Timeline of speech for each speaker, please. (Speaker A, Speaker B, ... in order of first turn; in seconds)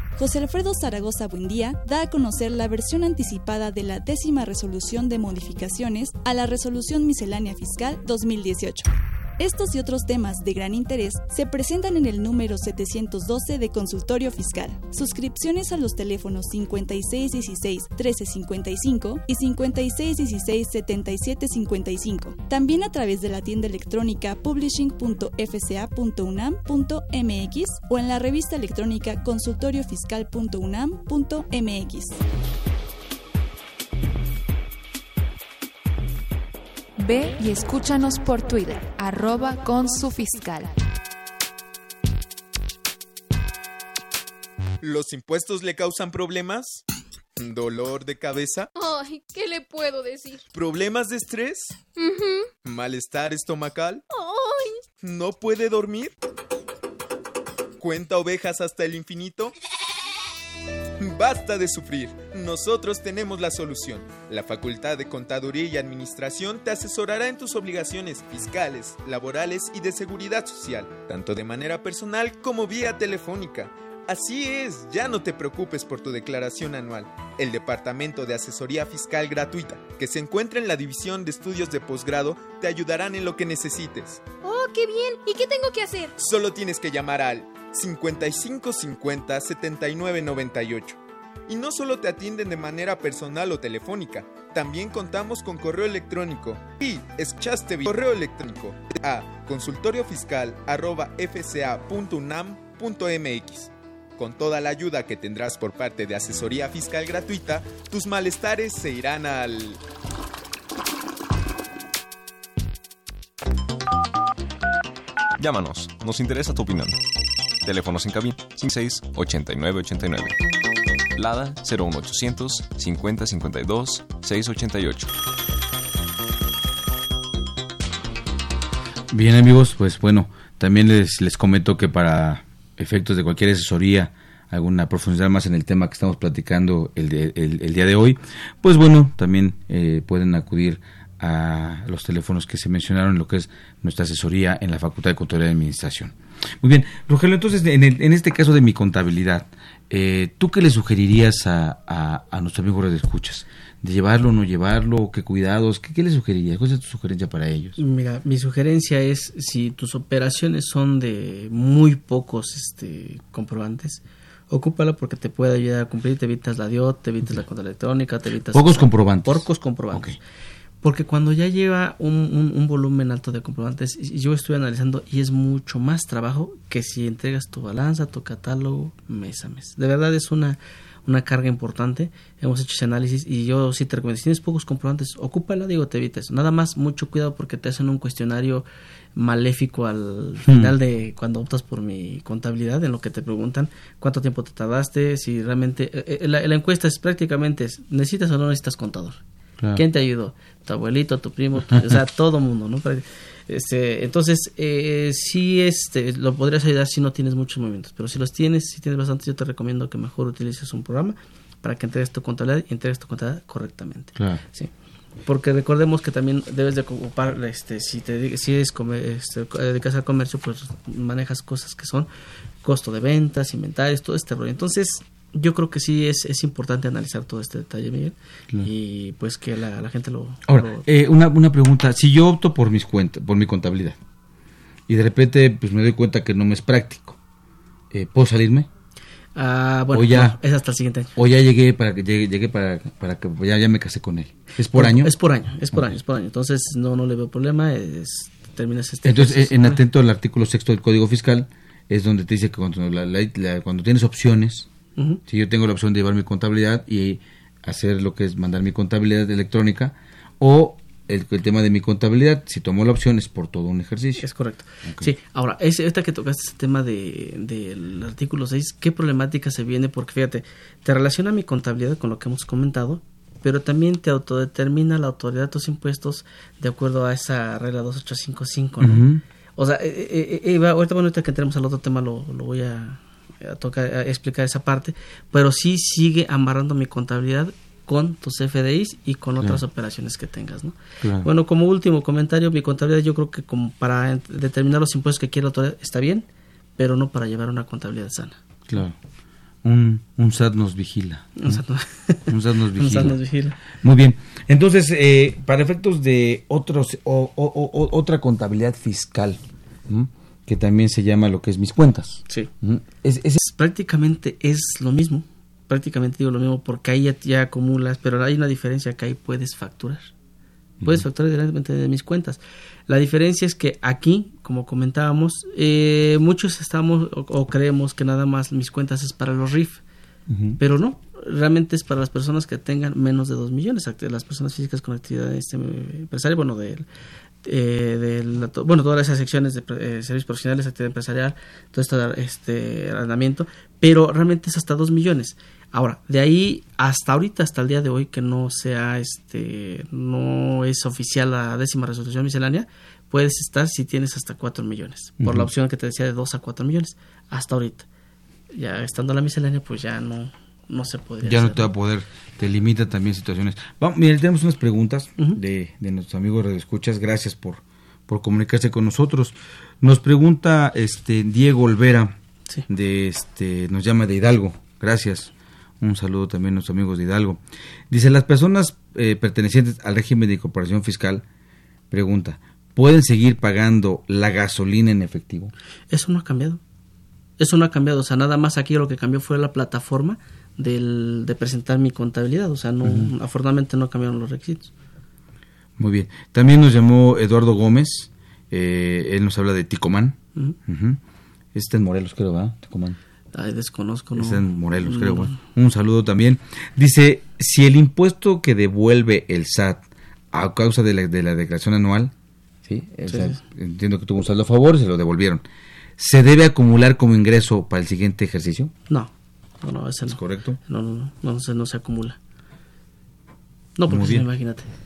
Speaker A: 0.1-8.9, 9.4-32.2
Speaker B: 37.0-40.7
Speaker C: 44.8-46.8, 47.4-48.7, 50.5-51.8, 52.6-54.0, 55.0-56.1, 57.8-59.5, 61.0-84.2, 86.2-109.8
Speaker D: 48.8-50.4, 51.9-52.5, 54.1-54.8, 84.4-86.1
Speaker E: 115.4-117.0, 117.6-120.3, 121.2-125.1
Speaker F: 129.1-157.8, 168.5-170.2, 190.4-190.7, 214.2-214.4, 230.5-234.0, 234.9-237.2, 237.9-238.7, 239.9-240.4, 241.2-245.1, 249.0-254.7, 255.3-264.2, 264.8-265.1, 278.8-279.2, 291.0-291.3, 298.7-299.0, 299.6-301.6, 302.3-303.2, 303.8-313.4, 330.3-330.6, 355.2-355.5, 361.2-372.1, 372.7-381.2, 381.9-385.5, 392.8-393.1, 395.8-401.0, 401.5-403.0, 404.1-412.1, 412.6-415.4, 416.0-418.7, 420.1-420.6, 423.9-424.2
Speaker G: 157.8-170.2, 170.8-199.2, 199.7-214.7, 215.2-222.1, 222.6-230.8, 239.3-241.1, 244.7-249.8, 254.9-255.2, 264.2-296.3, 296.8-298.4, 301.4-303.6, 313.4-320.1, 320.8-329.8, 330.6-336.8, 337.4-357.9, 358.5-361.7, 385.9-386.6, 387.4-394.7, 403.3-405.4, 413.1-413.4, 419.6-422.2, 423.8-424.7